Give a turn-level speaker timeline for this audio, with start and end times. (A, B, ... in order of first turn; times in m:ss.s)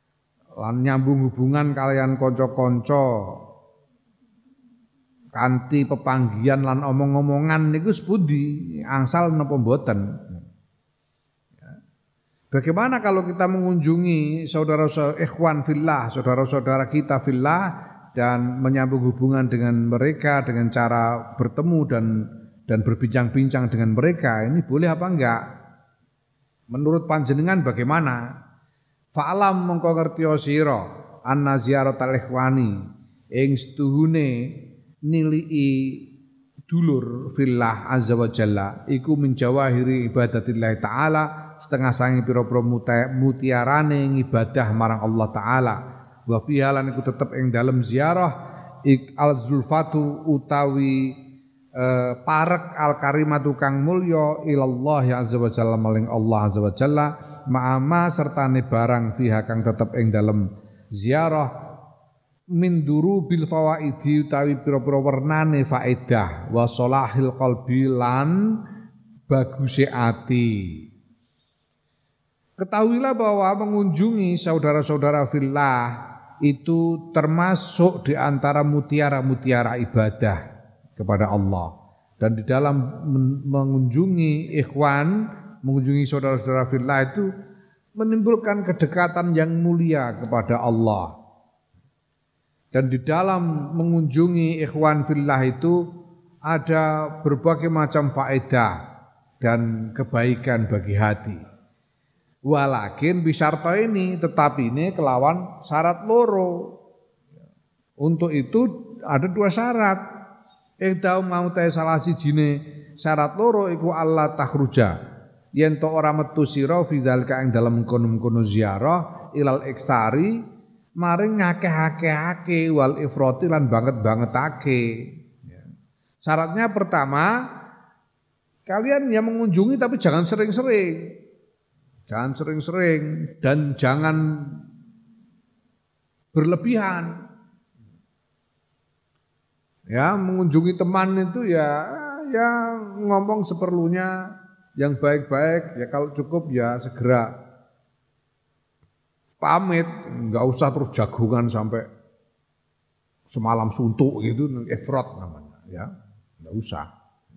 0:00.6-0:03.0 A
0:05.3-0:10.2 A
0:12.5-0:22.1 A
0:22.7-0:25.4 A
0:26.7-0:28.2 A
0:29.1-0:32.7 A
0:33.4-0:34.3 A
0:35.1-0:36.0 A
0:36.7-0:48.3 A
0:48.8-0:51.2 A
0:51.8-1:01.5 A
1:02.6-1:08.4 A
1:09.3-1:10.8 A
1:12.6-1:20.4 A
1:21.0-1:27.3 A
1:28.0-1:31.1 A
1:32.7-1:35.8 A
1:36.5-1:38.7 A
1:39.4-1:41.4 A
1:42.5-1:46.5 A
1:48.0-1:50.0 A
1:50.8-1:54.9 A
1:55.6-2:00.3 A
2:01.0-2:04.8 A
2:06.2-2:07.3 A
2:08.7-2:10.9 A
2:12.1-2:14.6 A
2:16.3-2:17.2 A
2:19.9-2:24.1 A
2:24.8-2:27.3 A
2:29.4-2:31.8 A
2:33.3-2:36.9 A